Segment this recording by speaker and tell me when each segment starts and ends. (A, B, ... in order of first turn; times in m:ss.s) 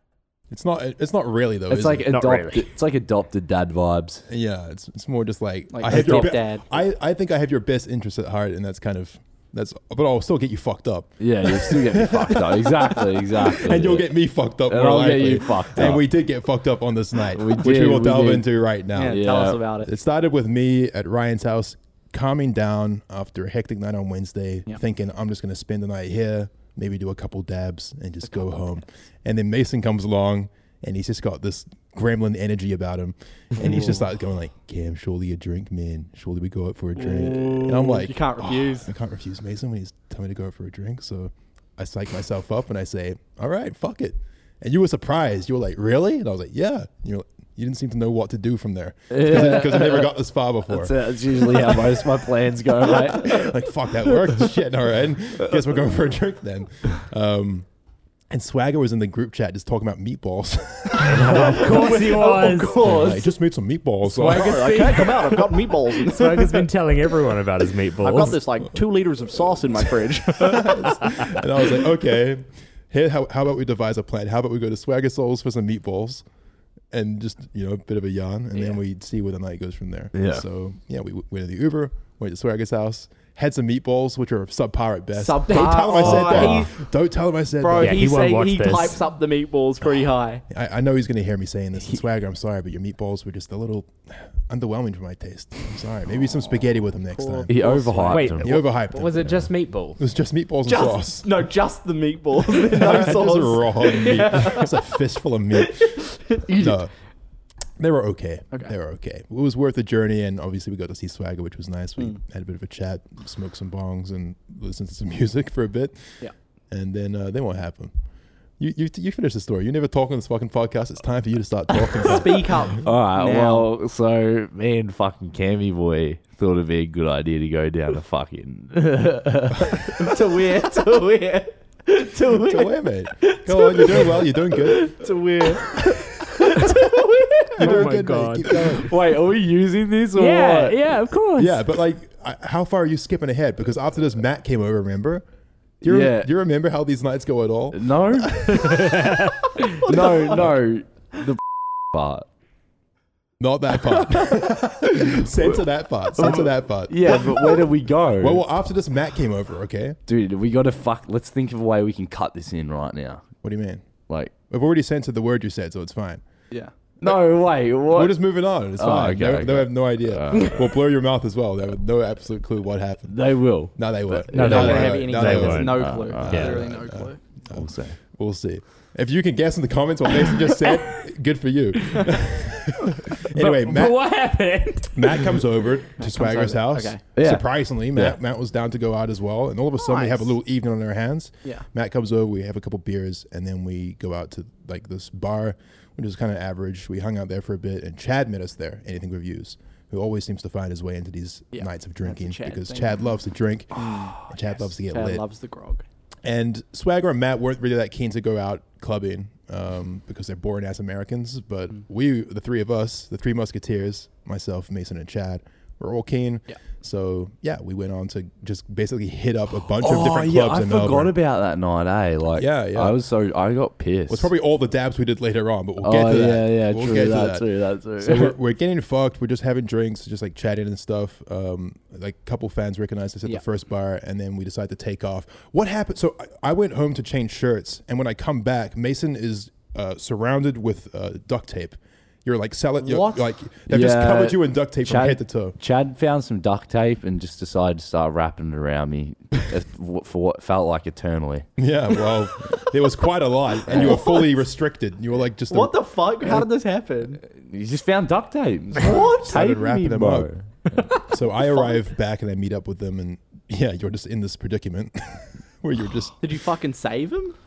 0:00.5-0:02.1 A
0:01.7-0:04.3 B
0:02.1-0:02.7 C
0:04.3-0:52.2 A
0:05.7-0:06.7 D
0:05.9-0:06.4 B
0:11.2-0:14.1 B
0:14.7-0:16.0 B
0:17.3-0:18.4 B
0:18.9-0:19.9 D
0:19.0-0:19.6 B
0:33.6-0:34.0 D
0:37.0-0:38.9 D
0:49.1-0:50.1 B
0:50.7-0:53.5 B
0:52.8-0:57.6 A
0:58.3-1:01.8 A
1:01.0-1:02.9 C
1:01.0-1:03.2 D
1:02.8-1:05.1 A
1:04.0-1:06.7 D
1:04.2-1:08.4 C
1:08.0-1:11.4 D
1:10.4-1:16.2 A
1:16.9-1:28.1 A
1:20.1-1:20.4 B
1:25.1-1:26.8 D
1:25.5-1:26.6 C
1:27.6-1:30.4 D
1:27.8-1:29.0 C
1:30.5-1:37.8 A
1:37.1-1:38.3 D
1:37.5-1:38.5 B
1:38.1-1:40.0 C
1:38.4-1:41.4 A
1:40.6-1:44.9 D
1:42.5-1:46.9 A
1:45.5-1:46.8 D
1:47.8-1:57.9 A
1:58.6-2:02.7 A
2:02.0-2:03.7 D
2:02.8-2:10.2 B
2:09.7-2:17.9 D
2:12.3-2:14.9 A
2:15.7-2:16.8 A
2:17.6-2:18.9 A
2:17.6-2:18.7 C
2:18.7-2:20.8 B
2:20.1-2:21.6 C
2:21.4-2:25.2 A
2:25.8-2:29.0 A
2:25.8-2:26.3 B
2:27.7-2:32.3 B
2:28.7-2:29.6 C
2:29.8-2:30.3 D
2:30.3-2:30.6 A
2:33.4-2:40.0 A
2:35.0-2:35.4 B
2:36.1-2:38.4 B
2:40.1-2:43.2 B
2:43.4-2:43.8 A
2:44.1-2:44.3 B
2:44.5-2:46.2 A
2:47.0-2:48.2 B
2:47.9-3:04.0 A
2:48.8-2:50.7 B
2:53.1-2:56.7 B
2:54.3-2:56.6 C
2:54.4-2:57.2 D
2:57.5-2:58.0 B
3:02.9-3:05.4 C
3:04.9-3:25.2 A
3:06.0-3:07.0 D
3:07.1-3:08.2 B
3:09.8-3:10.3 D
3:21.5-3:23.1 D
3:23.7-3:25.8 D
3:26.2-3:41.1 A
3:39.7-3:44.3 B
3:42.4-3:43.0 A
3:44.1-4:05.6 A
3:45.8-3:48.3 B
4:02.8-4:03.3 D
4:03.7-4:11.5 B
4:11.6-4:15.8 A
4:13.7-4:14.0 B
4:13.8-4:14.2 D
4:15.5-4:17.2 D
4:17.3-4:20.9 B
4:18.8-4:19.3 D
4:18.8-4:20.3 A
4:20.9-4:26.2 A
4:21.3-4:21.8 D
4:26.2-4:27.4 D